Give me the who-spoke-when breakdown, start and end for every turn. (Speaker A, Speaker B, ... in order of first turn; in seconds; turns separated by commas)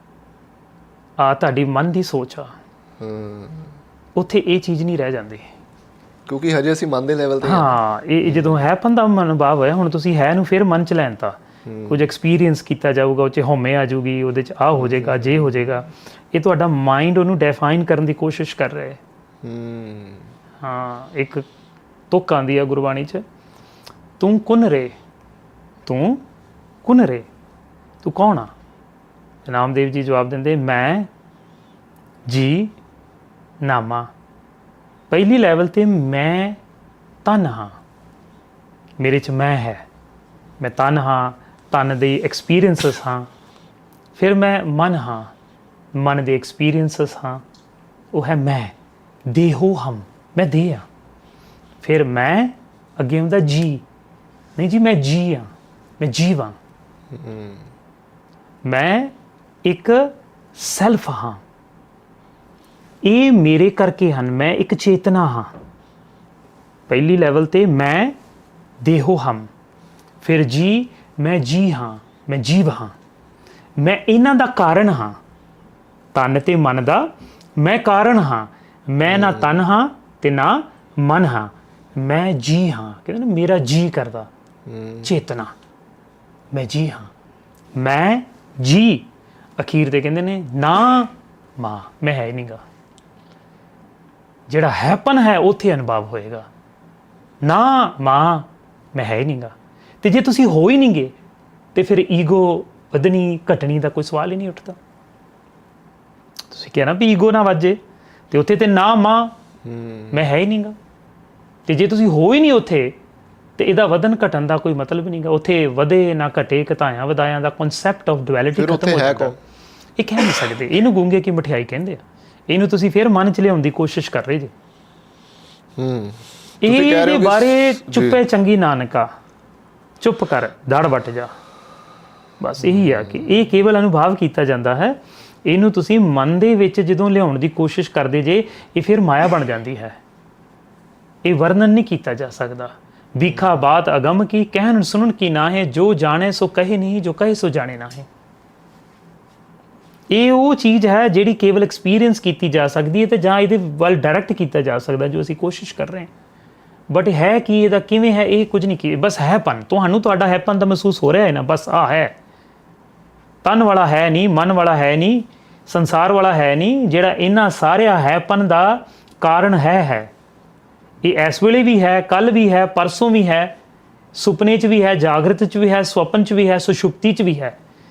Speaker A: 1.2-2.5, Speaker B: 3.0-3.7, Speaker A: 4.2-5.4, Speaker B: 6.3-8.6, Speaker A: 7.4-19.0, Speaker B: 11.7-12.0, Speaker B: 14.8-15.7, Speaker B: 19.4-20.3, Speaker A: 20.6-21.4, Speaker A: 22.1-23.2, Speaker A: 24.2-24.9, Speaker A: 25.9-26.2, Speaker A: 26.8-27.3, Speaker A: 28.0-28.5, Speaker A: 29.5-31.1, Speaker A: 32.3-32.7, Speaker A: 33.6-34.1, Speaker A: 35.1-36.6, Speaker A: 37.2-37.8, Speaker A: 39.0-39.8, Speaker A: 40.6-43.3, Speaker A: 44.2-45.3, Speaker A: 46.0-47.4, Speaker A: 48.1-48.7, Speaker A: 49.3-50.9, Speaker A: 51.8-53.8, Speaker A: 54.6-56.6, Speaker B: 57.1-57.7, Speaker A: 58.7-59.1, Speaker A: 59.6-61.4, Speaker A: 63.0-65.5, Speaker A: 66.9-68.2, Speaker A: 68.8-69.5, Speaker A: 70.2-72.9, Speaker A: 73.8-75.2, Speaker A: 76.1-84.3, Speaker B: 79.1-79.5, Speaker B: 84.7-85.1, Speaker A: 85.0-85.5, Speaker A: 86.5-87.1, Speaker A: 87.8-89.1, Speaker A: 89.6-92.6, Speaker A: 94.5-96.5, Speaker A: 97.4-101.1, Speaker A: 101.8-104.8, Speaker A: 106.5-107.8, Speaker A: 108.3-109.3, Speaker B: 109.7-110.2, Speaker A: 110.1-110.8, Speaker A: 111.7-113.0, Speaker A: 113.6-119.3, Speaker B: 118.5-119.4, Speaker A: 120.0-124.5, Speaker B: 125.8-128.2, Speaker A: 126.6-129.1, Speaker A: 130.0-131.3, Speaker A: 132.4-140.0, Speaker B: 132.6-133.3, Speaker A: 141.2-148.1, Speaker A: 150.1-156.1, Speaker A: 156.9-162.2, Speaker A: 163.4-170.1, Speaker A: 171.0-173.6, Speaker A: 174.2-177.6